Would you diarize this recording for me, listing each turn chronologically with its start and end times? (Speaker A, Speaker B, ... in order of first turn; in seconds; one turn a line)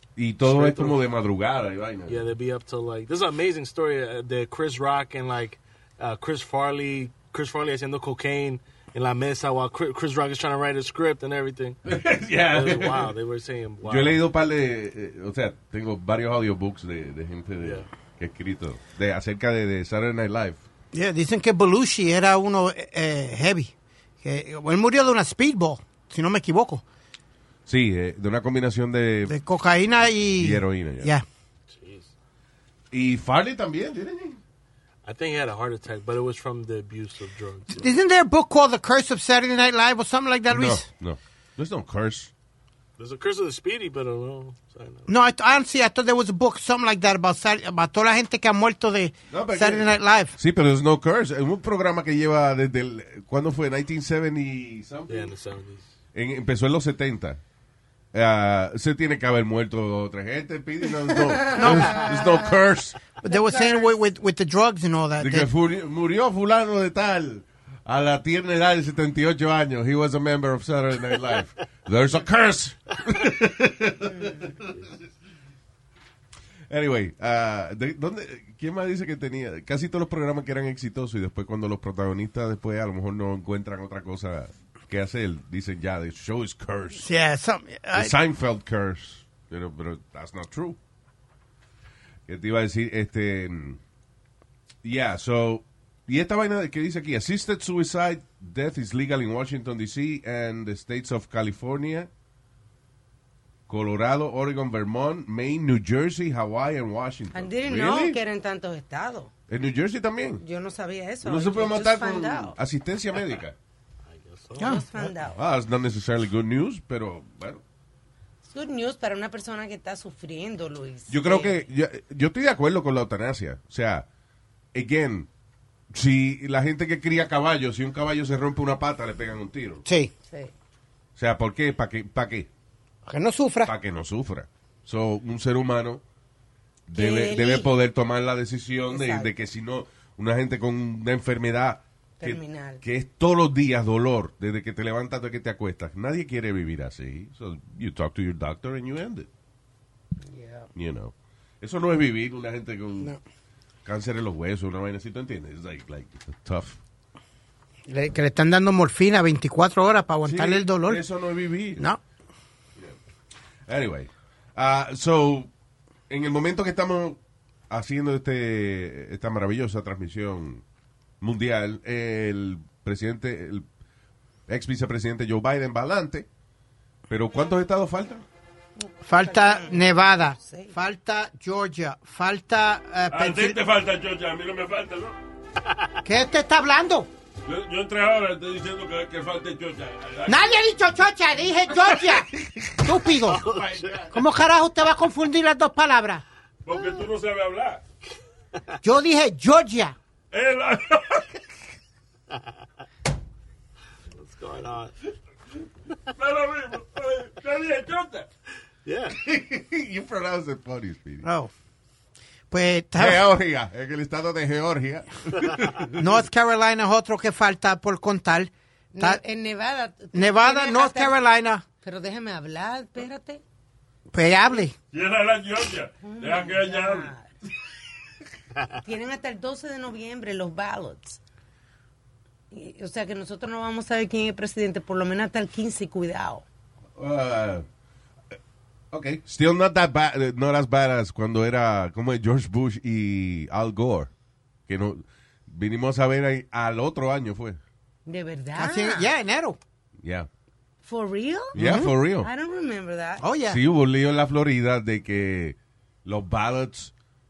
Speaker A: 0.1-2.2
Speaker B: 0.4-1.0
Speaker B: 2.1-11.8
Speaker A: 11.8-13.1
Speaker B: 12.5-14.2
Speaker A: 13.8-20.6
Speaker C: 20.9-26.8
Speaker A: 27.6-29.4
Speaker C: 29.2-31.2
Speaker A: 30.3-31.1
Speaker B: 31.7-32.1
Speaker A: 32.9-34.4
Speaker B: 35.0-37.9
Speaker C: 37.7-40.8
Speaker A: 40.5-42.3
Speaker B: 43.0-45.1
Speaker C: 45.1-50.3
Speaker A: 49.3-55.3
Speaker B: 55.1-55.9
Speaker A: 56.1-57.4
Speaker A: 58.1-63.0
Speaker D: 61.4-62.5
Speaker C: 61.5-62.2
Speaker C: 63.2-65.5
Speaker D: 63.2-64.0
Speaker A: 65.2-74.8
Speaker A: 76.7-87.0
Speaker C: 87.0-88.1
Speaker A: 87.9-90.8
Speaker A: 92.3-93.8
Speaker A: 94.8-102.1
Speaker A: 103.7-108.2
Speaker D: 107.3-109.3
Speaker A: 109.5-110.4
Speaker D: 110.4-112.6
Speaker A: 111.2-113.5
Speaker B: 114.1-114.8
Speaker C: 114.6-114.8
Speaker D: 114.6-115.4
Speaker A: 115.0-117.6
Speaker D: 118.4-121.6
Speaker A: 121.1-124.0
Speaker A: 124.7-125.3
Speaker A: 125.9-129.8
Speaker C: 129.8-130.1
Speaker A: 131.2-132.5
Speaker C: 133.1-133.7
Speaker A: 133.7-136.0
Speaker A: 136.9-149.3
Speaker D: 136.9-137.7
Speaker D: 138.9-139.3
Speaker D: 142.2-142.8
Speaker D: 150.2-150.7
Speaker A: 150.7-153.2
Speaker A: 153.8-156.8
Speaker C: 157.9-161.0
Speaker A: 160.2-161.8
Speaker A: 163.7-165.5
Speaker A: 166.1-167.2
Speaker A: 167.7-170.6
Speaker A: 171.2-173.7
Speaker A: 174.5-176.3
Speaker A: 177.1-178.2
Speaker C: 179.1-183.6
Speaker D: 179.2-180.7
Speaker E: 183.1-185.2
Speaker C: 186.0-187.1
Speaker E: 187.4-190.6
Speaker C: 190.2-192.3
Speaker A: 192.4-193.0
Speaker C: 192.8-193.4
Speaker B: 193.3-194.0
Speaker C: 194.1-196.2
Speaker E: 196.6-197.8
Speaker C: 198.8-199.9
Speaker E: 200.3-201.3
Speaker B: 204.2-204.9
Speaker E: 206.1-208.3
Speaker B: 208.8-209.2
Speaker A: 209.1-211.2
Speaker C: 211.2-211.5
Speaker C: 212.5-213.2
Speaker A: 212.9-216.0
Speaker C: 216.0-219.2
Speaker D: 218.9-221.2
Speaker C: 220.1-221.6
Speaker D: 221.8-223.4
Speaker C: 224.1-224.8
Speaker E: 224.9-227.1
Speaker D: 226.0-227.3
Speaker D: 228.8-231.2
Speaker D: 232.5-236.4
Speaker A: 236.9-237.7
Speaker A: 238.9-244.1
Speaker A: 244.7-247.6
Speaker D: 248.1-249.1
Speaker C: 248.6-249.6
Speaker A: 250.0-250.3
Speaker D: 250.8-251.6
Speaker A: 251.5-252.3
Speaker C: 251.6-251.9
Speaker D: 252.2-253.2
Speaker C: 253.2-253.6
Speaker A: 253.5-256.9